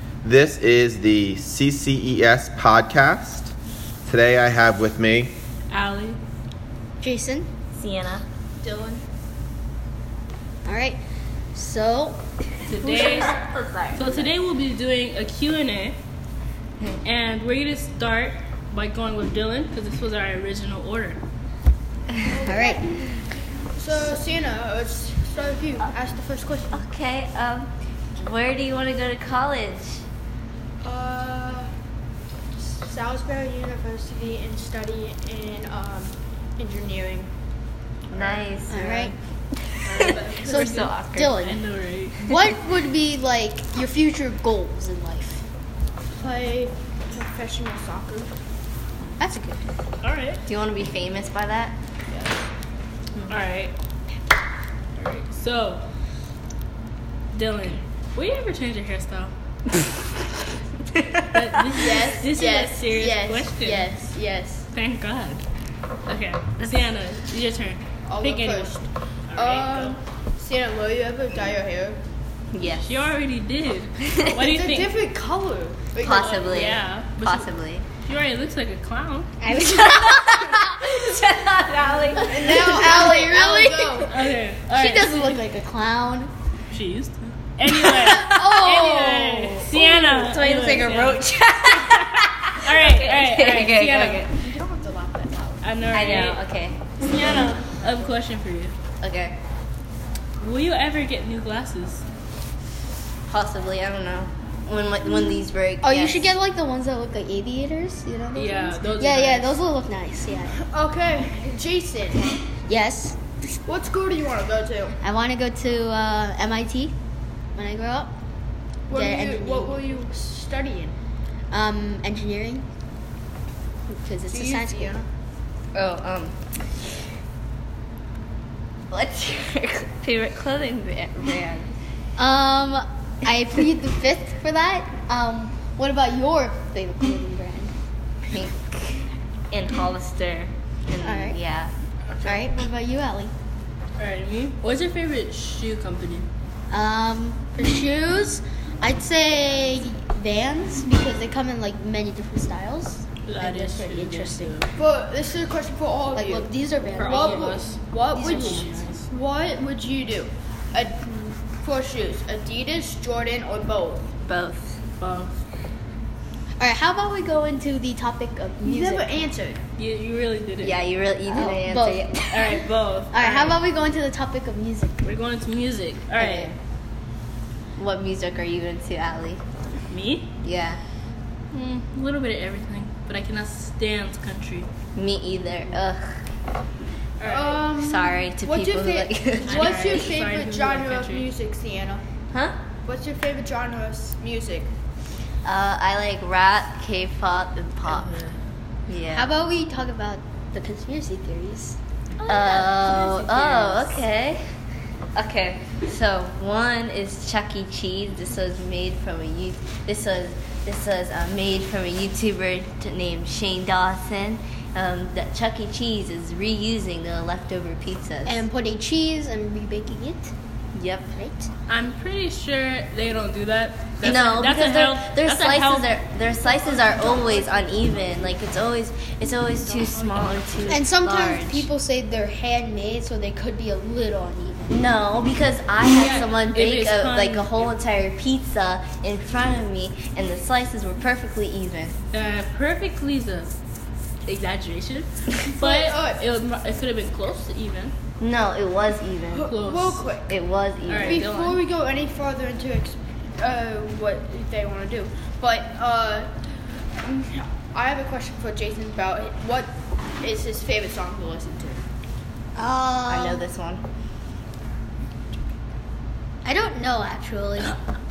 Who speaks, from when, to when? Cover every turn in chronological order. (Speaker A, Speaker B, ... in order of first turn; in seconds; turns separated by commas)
Speaker A: 0.2-3.5, Speaker A: 4.1-5.3, Speaker B: 5.7-6.2, Speaker C: 7.0-7.5, Speaker D: 7.8-8.2, Speaker E: 8.6-9.0, Speaker C: 10.7-11.0, Speaker C: 11.5-12.2, Speaker B: 12.7-13.4, Speaker D: 12.8-14.3, Speaker B: 13.9-16.0, Speaker B: 17.0-21.2, Speaker E: 22.2-23.1, Speaker C: 22.4-22.9, Speaker E: 23.7-26.9, Speaker D: 26.7-30.0, Speaker E: 30.8-31.7, Speaker E: 32.6-37.3, Speaker D: 38.1-39.1, Speaker C: 38.7-39.1, Speaker D: 39.7-41.4, Speaker B: 39.8-42.2, Speaker C: 41.1-41.6, Speaker C: 42.2-45.5, Speaker E: 46.1-48.3, Speaker C: 49.2-49.7, Speaker B: 50.0-50.4, Speaker D: 50.5-51.7, Speaker E: 52.1-52.4, Speaker B: 53.3-53.7, Speaker B: 55.0-55.8, Speaker B: 57.3-59.3, Speaker B: 61.2-64.1, Speaker E: 61.7-64.7, Speaker B: 64.7-65.4, Speaker B: 66.1-68.8, Speaker D: 66.6-67.0, Speaker E: 68.0-72.0, Speaker B: 69.3-70.0, Speaker D: 72.5-73.1, Speaker B: 72.8-74.9, Speaker E: 74.3-76.4, Speaker D: 76.0-77.8, Speaker B: 76.0-77.5, Speaker B: 78.0-79.3, Speaker C: 79.4-80.9, Speaker D: 79.5-82.9, Speaker C: 82.1-86.3, Speaker E: 82.2-84.1, Speaker B: 84.1-85.3, Speaker B: 86.7-91.2, Speaker C: 87.8-89.6, Speaker D: 88.1-88.5, Speaker D: 89.7-94.4, Speaker B: 92.5-94.3, Speaker E: 94.2-95.6, Speaker B: 95.6-96.4, Speaker D: 95.9-97.0, Speaker B: 97.0-98.7, Speaker E: 97.1-98.1, Speaker D: 99.0-99.4, Speaker B: 100.4-102.0, Speaker D: 103.3-106.3, Speaker C: 105.8-110.6, Speaker B: 108.3-109.6, Speaker E: 110.6-112.3, Speaker C: 112.7-113.2, Speaker E: 113.7-115.0, Speaker C: 115.0-116.9, Speaker C: 117.6-118.1, Speaker E: 118.9-121.0, Speaker C: 118.9-119.8, Speaker C: 121.5-122.7, Speaker C: 123.9-125.0, Speaker E: 124.3-125.0, Speaker D: 125.7-126.4, Speaker D: 128.9-131.7, Speaker C: 132.2-137.7, Speaker D: 138.3-141.7, Speaker C: 141.0-141.4, Speaker B: 142.1-142.6, Speaker C: 142.2-143.3, Speaker B: 144.0-146.3, Speaker C: 146.7-154.6, Speaker B: 153.3-154.7, Speaker E: 154.8-164.1, Speaker C: 156.1-158.8, Speaker B: 156.9-159.1, Speaker D: 164.2-164.8, Speaker B: 165.0-165.4, Speaker C: 166.6-169.3, Speaker E: 168.6-169.6, Speaker B: 169.8-170.8, Speaker D: 170.6-172.3, Speaker C: 171.3-175.1, Speaker B: 172.3-173.6, Speaker B: 175.0-176.5, Speaker D: 176.2-176.6, Speaker D: 177.8-179.4, Speaker B: 179.9-180.3, Speaker D: 180.4-180.8, Speaker B: 181.5-184.7, Speaker D: 184.9-186.2, Speaker B: 187.2-187.6, Speaker E: 187.2-192.0, Speaker D: 187.7-190.1, Speaker B: 189.4-191.3, Speaker E: 192.9-194.7, Speaker D: 195.4-198.2, Speaker B: 197.9-198.3, Speaker D: 198.9-199.3, Speaker C: 199.1-201.8, Speaker B: 202.2-204.0, Speaker D: 202.3-204.4, Speaker D: 205.2-218.4, Speaker C: 218.3-220.3, Speaker D: 220.7-221.1, Speaker C: 221.1-221.5, Speaker B: 221.7-225.9, Speaker D: 224.0-231.7, Speaker B: 229.6-230.5, Speaker C: 230.7-234.8, Speaker D: 234.7-241.9, Speaker B: 235.9-237.7, Speaker B: 242.1-243.5, Speaker B: 244.3-247.9, Speaker E: 245.5-246.2, Speaker D: 248.2-249.5, Speaker E: 249.3-250.3, Speaker B: 249.5-250.1, Speaker D: 250.3-251.2, Speaker B: 250.9-251.6, Speaker E: 250.9-256.3, Speaker E: 257.0-261.8, Speaker C: 262.6-263.4, Speaker D: 263.1-263.8, Speaker C: 266.4-267.8